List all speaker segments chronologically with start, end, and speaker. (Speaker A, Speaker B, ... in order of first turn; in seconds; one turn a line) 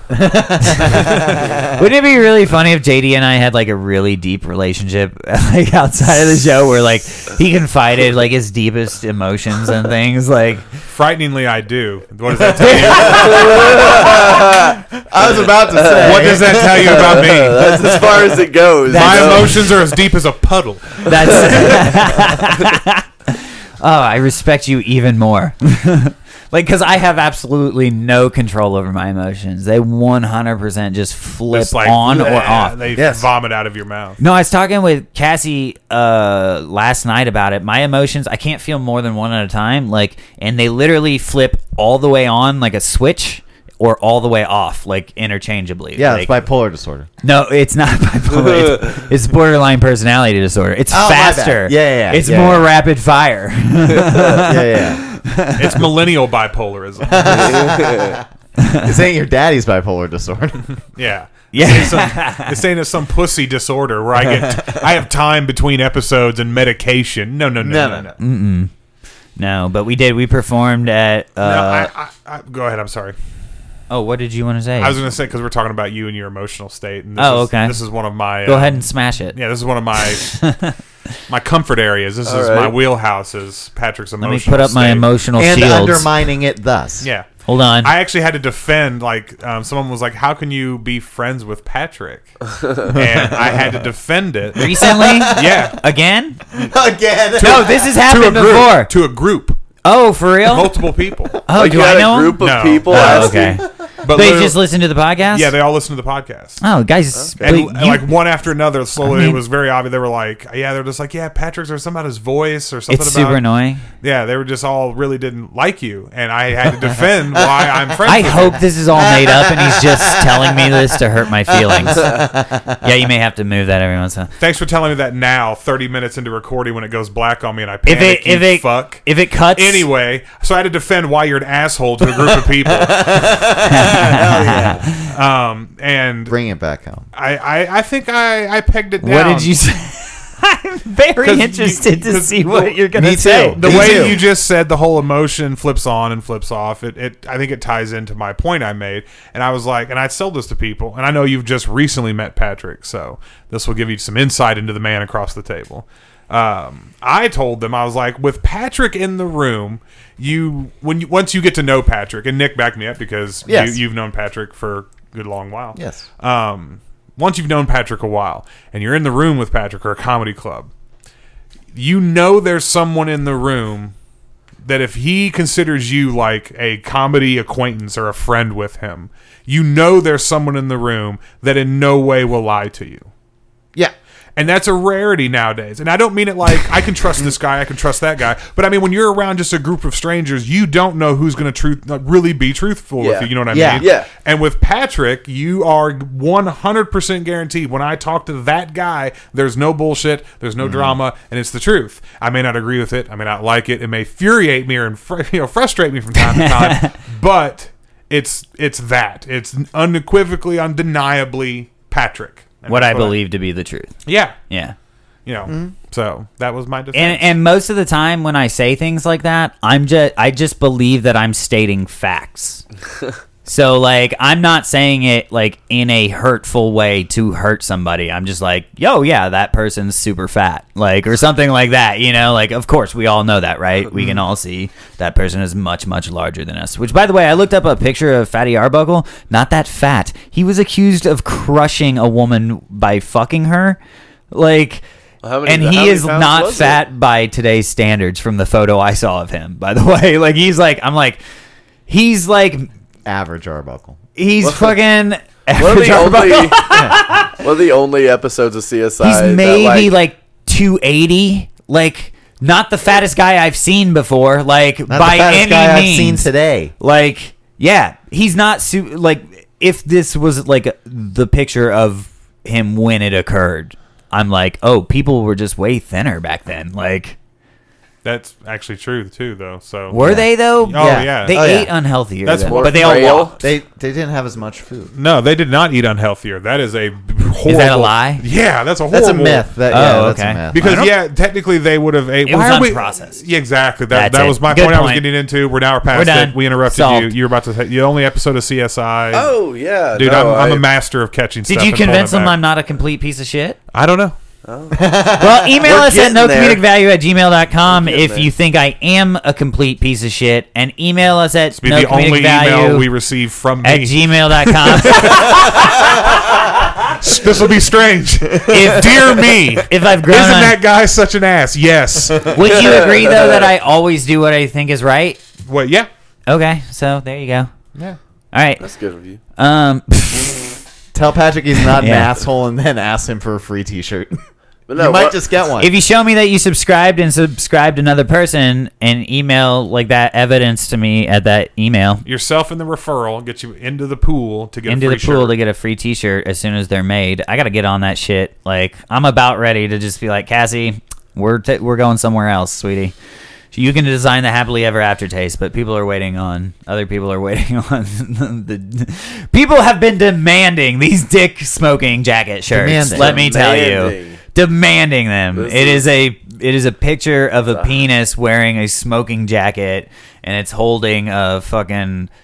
Speaker A: 0.1-1.8
Speaker B: 0.6-10.7
Speaker C: 10.9-13.8
Speaker D: 12.8-14.8
Speaker B: 12.9-14.0
Speaker A: 12.9-18.4
Speaker D: 15.7-19.8
Speaker C: 16.0-17.9
Speaker C: 18.9-21.8
Speaker B: 18.9-19.4
Speaker B: 21.1-32.8
Speaker D: 21.1-22.0
Speaker C: 31.5-34.2
Speaker A: 32.9-33.3
Speaker B: 34.2-46.4
Speaker A: 46.0-47.1
Speaker B: 47.2-55.9
Speaker D: 48.4-48.9
Speaker A: 50.9-52.7
Speaker D: 54.0-54.3
Speaker A: 54.4-55.0
Speaker C: 55.6-57.5
Speaker A: 57.1-58.2
Speaker D: 57.2-58.2
Speaker B: 58.6-58.9
Speaker A: 58.8-60.6
Speaker C: 60.9-68.2
Speaker B: 61.5-62.6
Speaker A: 64.2-64.8
Speaker A: 67.6-68.1
Speaker B: 68.2-68.7
Speaker B: 69.4-71.9
Speaker C: 71.4-73.2
Speaker B: 73.9-75.0
Speaker C: 74.8-80.3
Speaker B: 77.2-77.8
Speaker B: 78.5-79.4
Speaker B: 80.2-80.8
Speaker C: 81.3-85.1
Speaker D: 82.3-82.8
Speaker B: 84.2-86.1
Speaker A: 85.4-87.1
Speaker C: 87.0-87.3
Speaker B: 87.5-87.9
Speaker C: 87.8-95.8
Speaker D: 92.6-92.9
Speaker A: 93.0-93.7
Speaker B: 94.6-96.4
Speaker A: 94.6-95.7
Speaker A: 96.5-97.7
Speaker B: 97.4-98.9
Speaker C: 97.4-99.6
Speaker B: 99.8-100.8
Speaker C: 100.5-101.4
Speaker B: 101.5-105.5
Speaker D: 101.5-103.6
Speaker C: 102.4-104.6
Speaker C: 105.3-106.6
Speaker B: 106.6-108.1
Speaker D: 107.1-107.6
Speaker C: 107.4-113.4
Speaker B: 109.0-109.4
Speaker B: 112.9-113.8
Speaker C: 114.0-118.6
Speaker B: 118.1-122.2
Speaker A: 119.0-121.0
Speaker A: 121.5-122.9
Speaker D: 122.0-122.2
Speaker B: 122.8-124.3
Speaker C: 124.4-129.0
Speaker B: 127.9-129.9
Speaker C: 129.6-133.3
Speaker A: 132.2-134.9
Speaker B: 133.6-135.0
Speaker C: 135.0-136.3
Speaker A: 136.3-137.1
Speaker C: 137.1-139.6
Speaker B: 139.0-144.0
Speaker C: 141.2-142.8
Speaker A: 142.9-144.2
Speaker C: 143.6-170.7
Speaker A: 163.5-163.8
Speaker A: 165.8-166.1
Speaker C: 171.7-173.9
Speaker C: 174.6-183.1
Speaker C: 184.4-213.2
Speaker D: 193.0-194.1
Speaker A: 193.5-193.9
Speaker A: 200.6-201.0
Speaker B: 206.2-206.9
Speaker B: 212.7-213.9
Speaker C: 214.1-214.4
Speaker B: 214.5-214.8
Speaker C: 215.2-217.3
Speaker A: 215.5-215.7
Speaker B: 216.9-222.6
Speaker B: 223.4-243.8
Speaker A: 233.9-234.2
Speaker B: 244.3-244.8
Speaker D: 245.2-246.8
Speaker B: 245.4-251.2
Speaker B: 251.9-252.7
Speaker A: 253.1-254.0
Speaker B: 254.2-257.4
Speaker D: 254.4-254.8
Speaker D: 255.6-259.9
Speaker B: 259.0-266.3
Speaker A: 264.9-266.7
Speaker B: 266.8-277.2
Speaker C: 278.0-281.4
Speaker B: 279.9-283.4
Speaker A: 280.0-281.7
Speaker C: 282.2-283.2
Speaker D: 282.5-283.3
Speaker A: 283.4-284.9
Speaker C: 284.9-289.5
Speaker B: 287.5-288.2
Speaker A: 288.9-290.7
Speaker B: 289.7-290.9
Speaker C: 290.5-299.3
Speaker B: 292.2-293.2
Speaker B: 293.9-295.1
Speaker B: 295.9-297.1
Speaker D: 299.1-300.6
Speaker C: 299.9-302.4
Speaker B: 301.4-303.6
Speaker C: 303.7-304.1
Speaker D: 304.4-304.9
Speaker A: 304.7-305.5
Speaker B: 305.2-312.9
Speaker D: 305.6-306.6
Speaker D: 307.7-308.3
Speaker C: 311.6-322.4
Speaker B: 313.6-316.1
Speaker A: 318.5-319.0
Speaker B: 319.7-320.6
Speaker B: 322.3-325.2
Speaker D: 322.4-323.5
Speaker C: 325.5-325.9
Speaker B: 326.3-327.5
Speaker B: 328.3-328.6
Speaker D: 328.6-329.2
Speaker B: 329.4-330.5
Speaker A: 330.9-334.2
Speaker B: 331.7-332.1
Speaker D: 334.7-335.2
Speaker A: 334.8-335.7
Speaker B: 335.6-342.1
Speaker C: 342.1-345.3
Speaker B: 344.7-352.9
Speaker B: 353.5-372.1
Speaker A: 362.5-363.2
Speaker D: 362.9-364.2
Speaker D: 365.4-365.9
Speaker D: 367.5-367.9